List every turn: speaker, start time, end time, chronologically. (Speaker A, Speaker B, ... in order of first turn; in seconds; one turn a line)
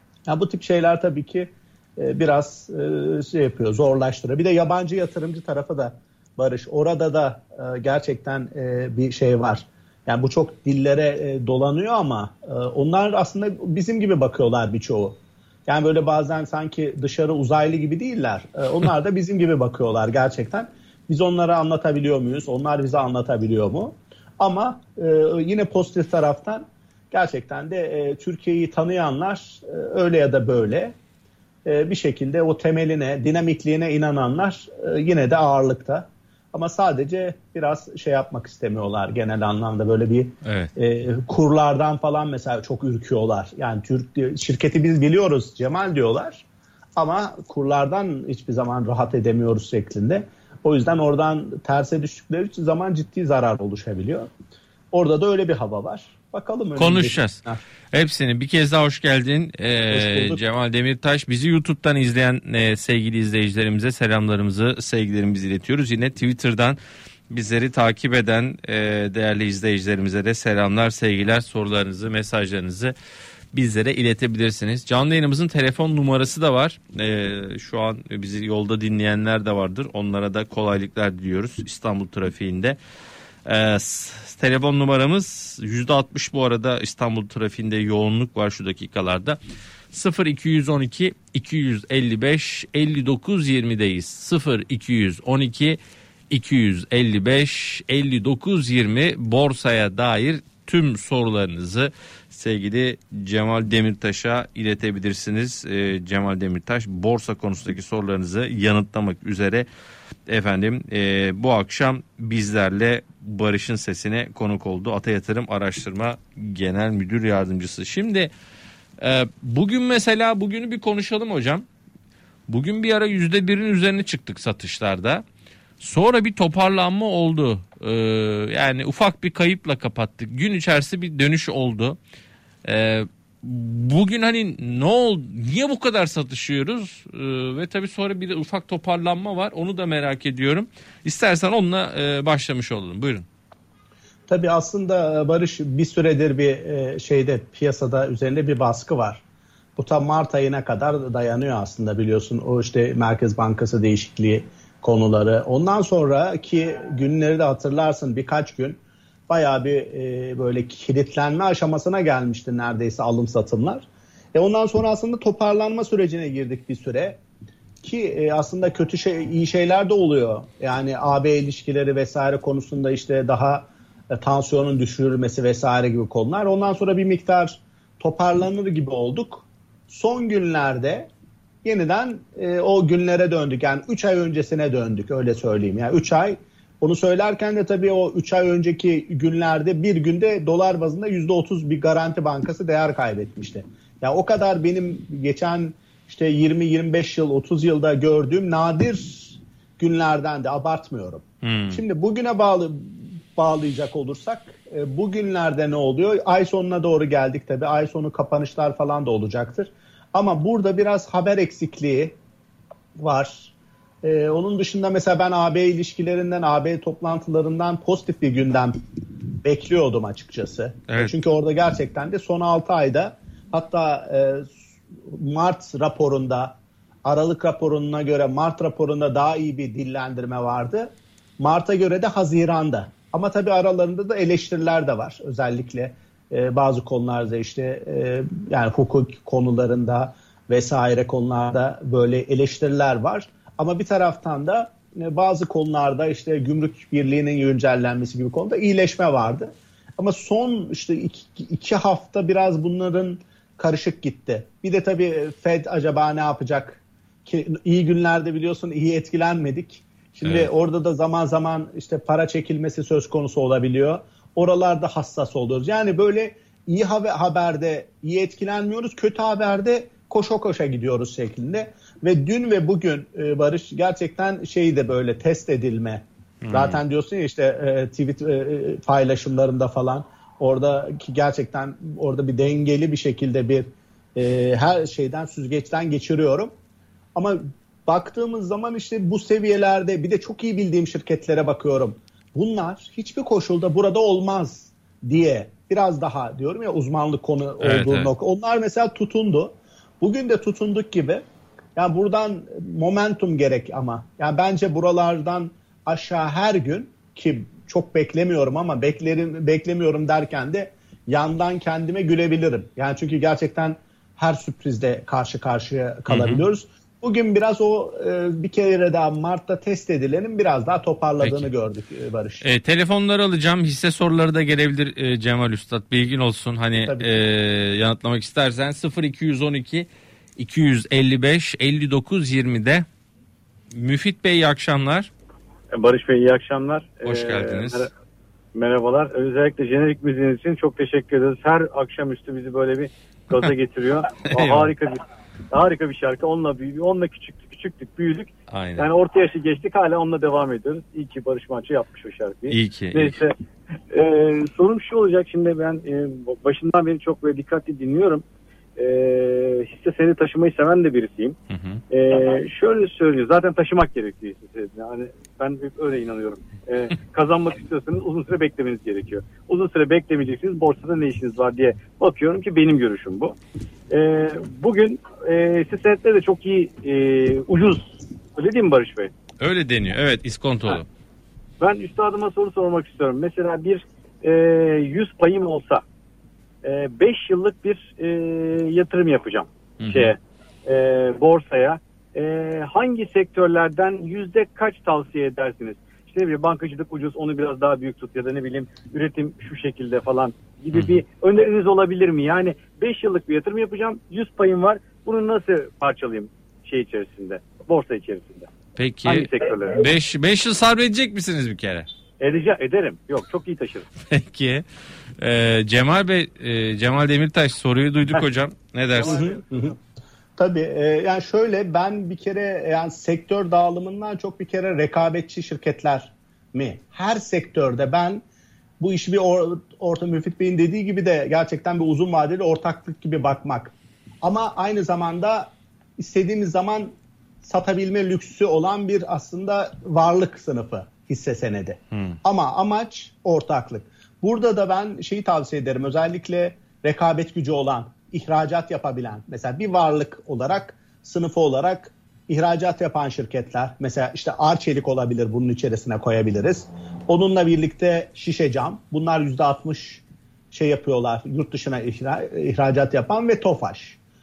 Speaker A: 0.3-30.9
Speaker A: 31.6-46.4
Speaker B: 40.4-40.7
Speaker A: 47.0-54.3
Speaker A: 54.9-57.6
Speaker B: 56.8-57.4
Speaker B: 57.9-66.8
Speaker A: 59.9-60.4
Speaker B: 67.3-72.9
Speaker B: 73.5-82.8
Speaker B: 83.5-89.4
Speaker B: 89.9-109.7
Speaker B: 110.3-118.3
Speaker B: 119.0-121.7
Speaker B: 122.5-125.2
Speaker B: 125.8-132.0
Speaker B: 132.7-143.3
Speaker A: 144.3-149.2
Speaker A: 149.8-167.2
Speaker A: 167.8-181.1
Speaker A: 181.6-212.2
Speaker B: 201.4-201.8
Speaker A: 213.0-218.8
Speaker A: 219.4-286.5
Speaker B: 260.2-260.5
Speaker B: 276.4-276.8
Speaker A: 287.1-301.2
Speaker B: 297.6-298.1
Speaker A: 301.8-322.4
Speaker B: 316.1-316.4
Speaker B: 321.2-321.5
Speaker B: 322.4-332.9
Speaker A: 326.8-327.2
Speaker B: 333.7-335.1
Speaker C: 335.7-337.9
Speaker B: 337.0-337.9
Speaker C: 338.5-353.3
Speaker B: 344.3-344.8
Speaker B: 348.5-348.9
Speaker B: 352.5-353.2
Speaker C: 353.9-358.2
Speaker C: 358.8-361.4
Speaker B: 361.5-361.8
Speaker C: 361.9-373.4
Speaker C: 373.9-379.1
Speaker B: 379.4-380.9
Speaker C: 381.6-385.8
Speaker C: 386.6-408.5
Speaker B: 389.8-390.1
Speaker B: 400.7-401.0
Speaker B: 408.8-411.9
Speaker C: 409.1-409.8
Speaker C: 412.2-413.9
Speaker B: 414.1-414.6
Speaker B: 415.2-419.2
Speaker C: 419.0-419.7
Speaker A: 419.0-419.8
Speaker A: 420.4-428.2
Speaker A: 428.8-464.0
Speaker B: 441.9-442.2